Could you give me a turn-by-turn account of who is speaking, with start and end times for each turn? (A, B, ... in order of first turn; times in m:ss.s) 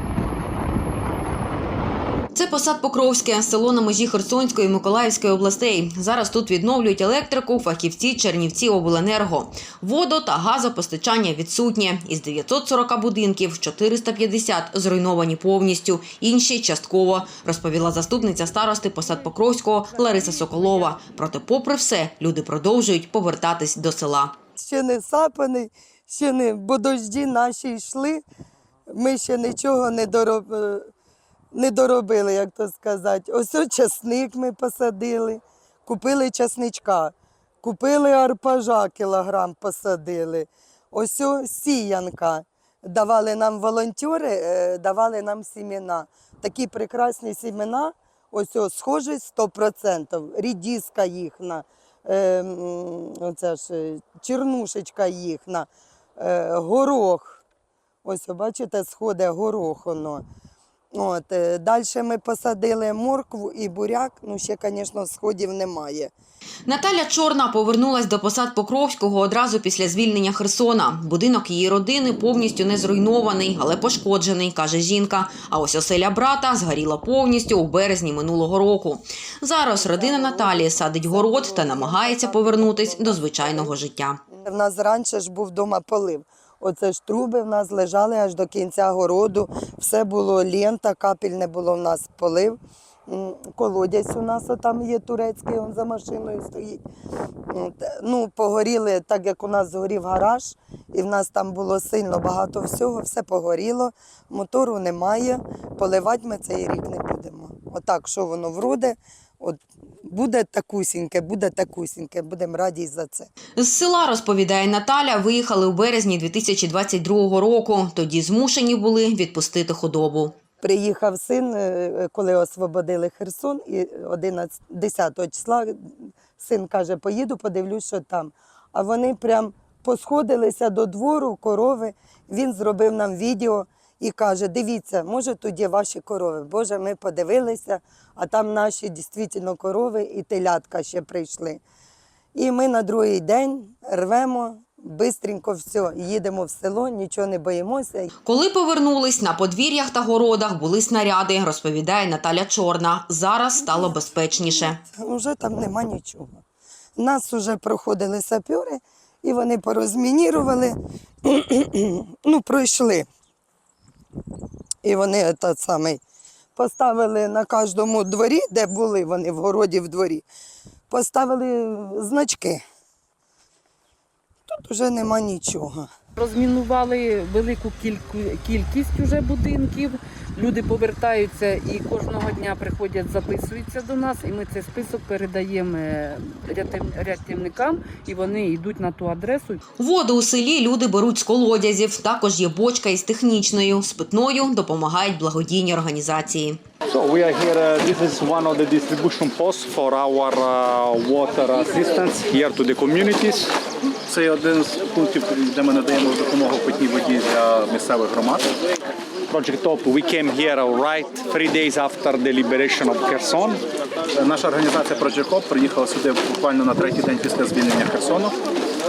0:02.3-0:24.3 A
0:18.8-0:19.4 B
0:19.9-0:21.0 B
0:24.6-0:28.2 C
0:29.0-0:30.9 C
0:31.5-0:55.7 C
0:56.2-0:57.4 C
0:58.0-1:00.2 C
1:01.0-1:06.1 C
1:06.7-1:24.2 A
1:19.8-1:23.7 C
1:24.3-1:36.8 C
1:37.5-1:53.3 C
1:53.6-2:00.3 A
2:00.6-2:21.6 C
2:22.4-2:28.1 C
2:28.2-2:34.8 A
2:34.9-2:36.4 C
2:37.0-2:43.1 C
2:44.8-2:46.0 C
2:46.6-2:50.2 C
2:50.9-2:52.6 C
2:54.5-2:55.9 C
2:56.2-3:09.6 B
3:09.8-3:16.6 A
3:16.9-3:23.4 D
3:24.1-3:28.4 E
3:24.2-3:26.1 D
3:26.7-3:28.3 D
3:29.3-3:33.6 D
3:34.2-3:38.3 E
3:34.4-3:35.0 D